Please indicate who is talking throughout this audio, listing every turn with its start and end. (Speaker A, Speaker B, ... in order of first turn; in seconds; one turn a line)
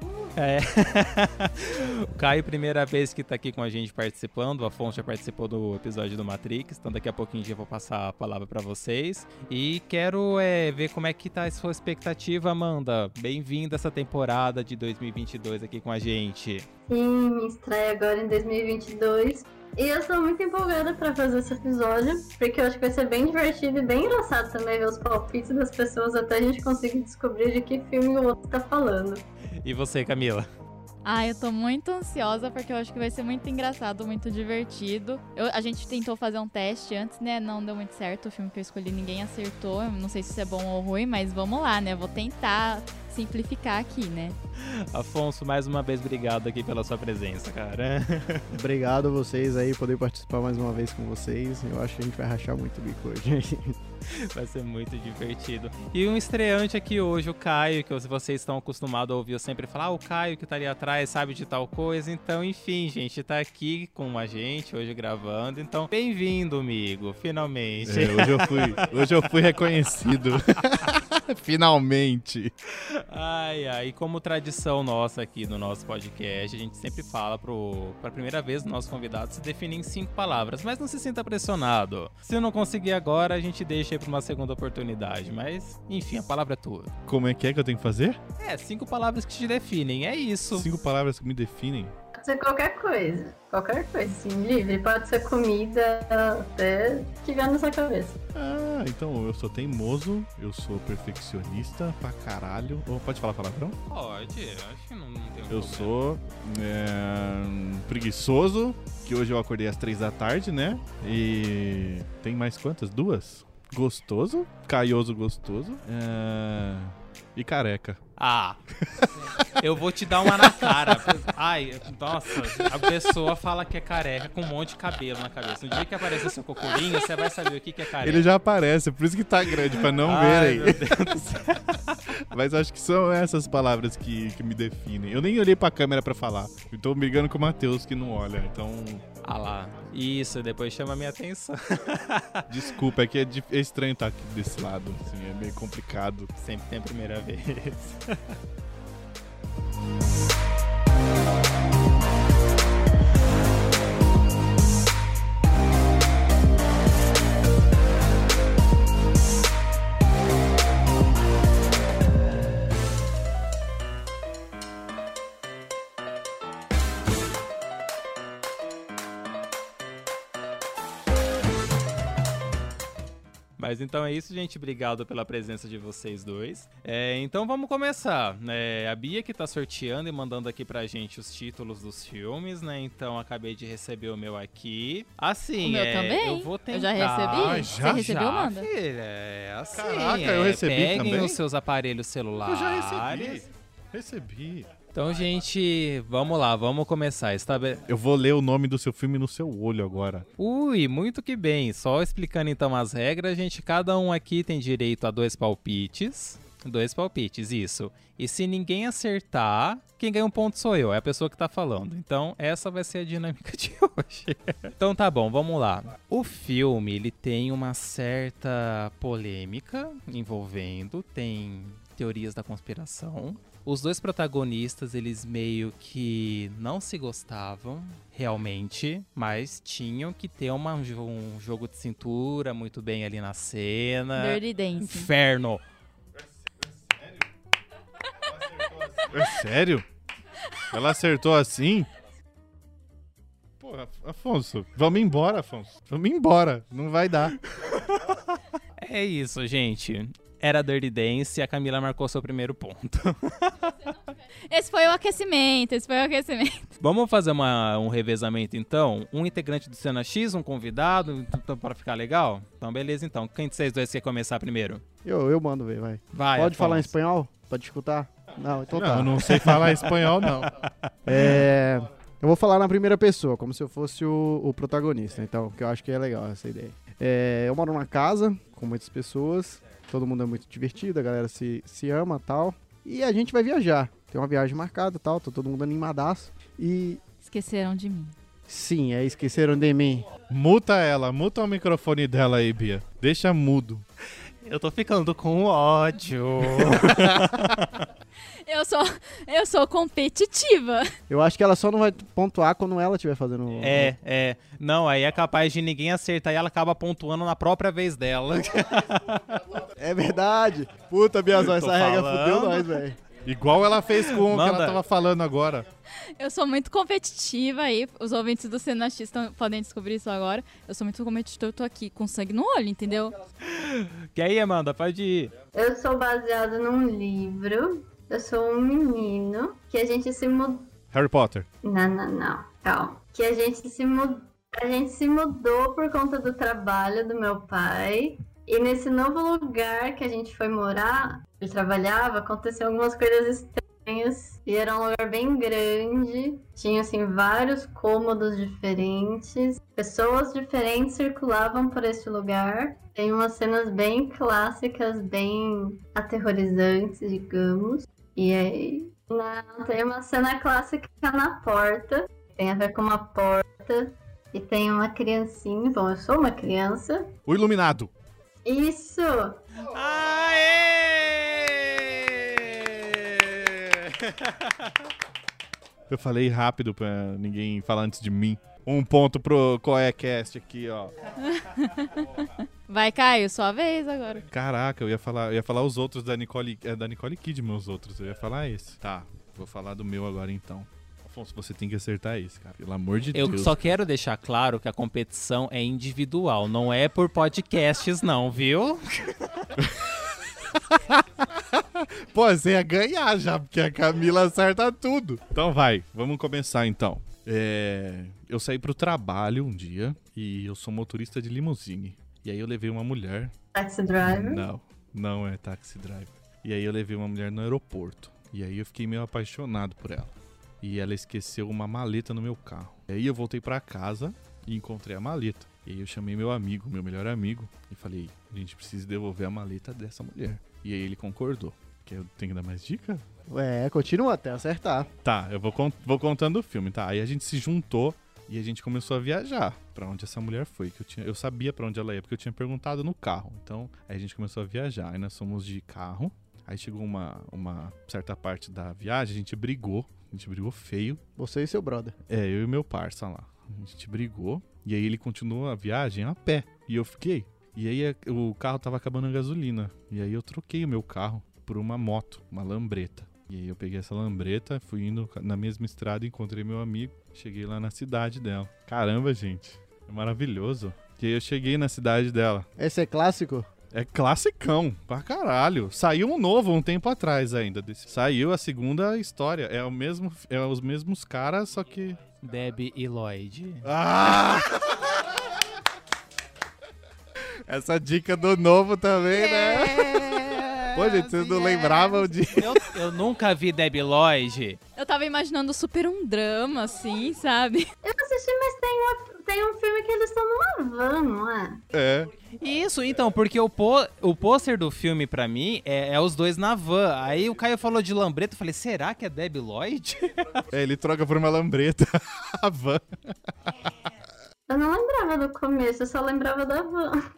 Speaker A: 0.3-16.7
Speaker B: 16.9-29.2
Speaker A: 29.6-30.5
Speaker C: 31.0-44.4
Speaker A: 44.5-48.5
Speaker D: 48.5-53.8
Speaker A: 54.0-68.9
Speaker E: 67.8-72.5
Speaker A: 72.7-86.9
Speaker E: 87.1-88.2
Speaker A: 88.4-90.7
Speaker E: 90.5-91.9
Speaker B: 92.2-98.2
Speaker E: 98.3-103.8
Speaker A: 103.9-105.9
Speaker E: 105.5-118.0
Speaker A: 118.2-118.6
Speaker E: 118.7-119.4
Speaker A: 119.2-128.2
Speaker E: 120.2-121.1
Speaker E: 122.4-123.0
Speaker E: 128.0-131.1
Speaker A: 129.5-132.0
Speaker E: 132.2-139.0
Speaker A: 139.2-142.7
Speaker E: 142.5-146.3
Speaker A: 146.3-148.4
Speaker A: 173.6-193.4
Speaker C: 185.6-188.7
Speaker E: 187.3-188.1
Speaker E: 189.7-191.4
Speaker E: 192.4-194.8
Speaker A: 194.9-197.8
Speaker E: 197.9-200.2
Speaker A: 200.4-235.6
Speaker C: 234.2-235.1
Speaker E: 238.9-239.8
Speaker E: 240.7-241.9
Speaker E: 243.6-247.4
Speaker A: 247.5-248.2
Speaker A: 248.8-253.9
Speaker C: 254.5-256.7
Speaker A: 256.8-264.8
Speaker D: 265.0-269.7
Speaker A: 266.1-266.9
Speaker E: 268.7-270.5
Speaker A: 269.2-271.3
Speaker D: 271.1-287.0
Speaker C: 287.2-288.1
Speaker D: 288.5-290.1
Speaker E: 290.3-293.8
Speaker A: 294.4-297.7
Speaker E: 296.6-297.5
Speaker C: 298.4-300.9
Speaker D: 301.1-303.9
Speaker A: 303.6-309.5
Speaker D: 309.8-313.0
Speaker A: 311.3-312.8
Speaker E: 313.2-315.6
Speaker A: 314.0-314.8
Speaker C: 316.2-323.1
Speaker A: 323.4-325.3
Speaker B: 325.5-330.7
Speaker E: 330.9-331.5
Speaker B: 331.6-367.1
Speaker E: 367.2-367.9
Speaker B: 368.4-369.4
Speaker A: 369.6-374.9
Speaker E: 375.9-380.9
Speaker C: 381.2-384.2
Speaker E: 384.3-393.6
Speaker A: 393.1-399.5
Speaker E: 399.6-413.3
Speaker B: 413.5-414.4
Speaker E: 414.0-433.0
Speaker D: 433.3-434.9
Speaker E: 435.0-451.0
Speaker D: 451.2-451.9
Speaker E: 452.1-472.5
Speaker D: 472.6-473.5
Speaker E: 473.7-482.0
Speaker A: 482.2-483.7
Speaker E: 483.6-485.4
Speaker E: 487.5-492.7
Speaker A: 489.1-494.6
Speaker C: 494.8-497.7
Speaker B: 497.8-501.6
Speaker E: 501.7-502.1
Speaker A: 502.4-510.5
Speaker E: 510.5-513.9
Speaker B: 514.5-517.0